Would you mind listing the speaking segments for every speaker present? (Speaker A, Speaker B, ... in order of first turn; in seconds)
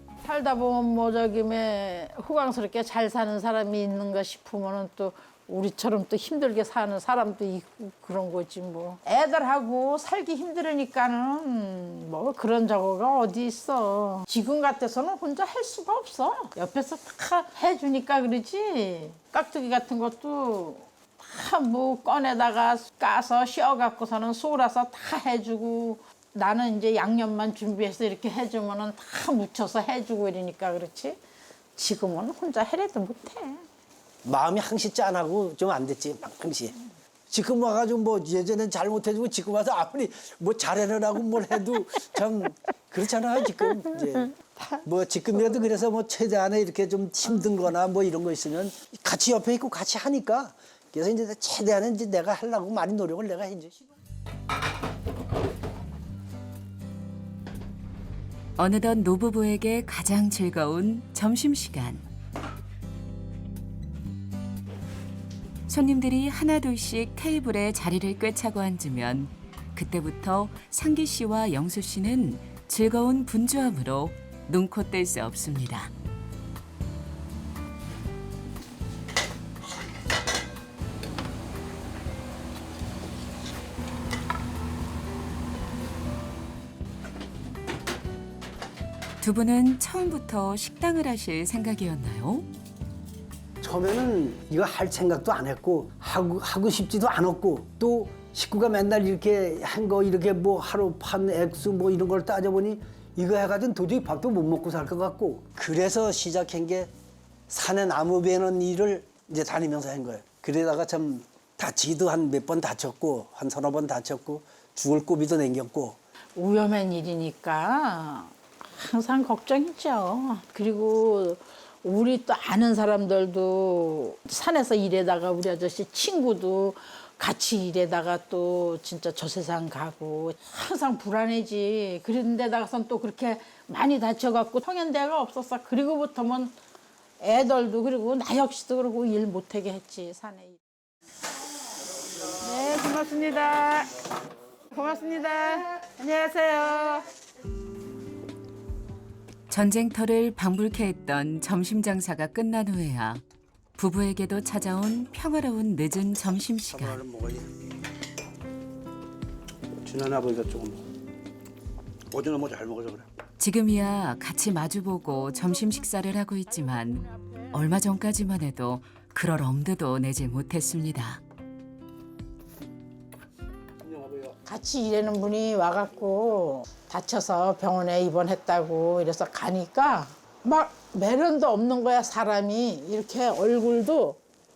Speaker A: 0.2-31.2, 31.8-33.6, 116.3-136.5, 137.2-140.6, 142.3-143.9, 144.7-147.1, 174.4-184.2
Speaker B: 34.2-36.7, 37.3-53.7, 93.6-106.9, 107.5-116.0, 156.7-157.5, 159.8-160.8, 162.1-163.1, 173.8-174.3
Speaker C: 58.6-62.0, 65.7-75.9, 89.2-92.5, 149.5-153.2, 153.8-157.0, 163.4-171.2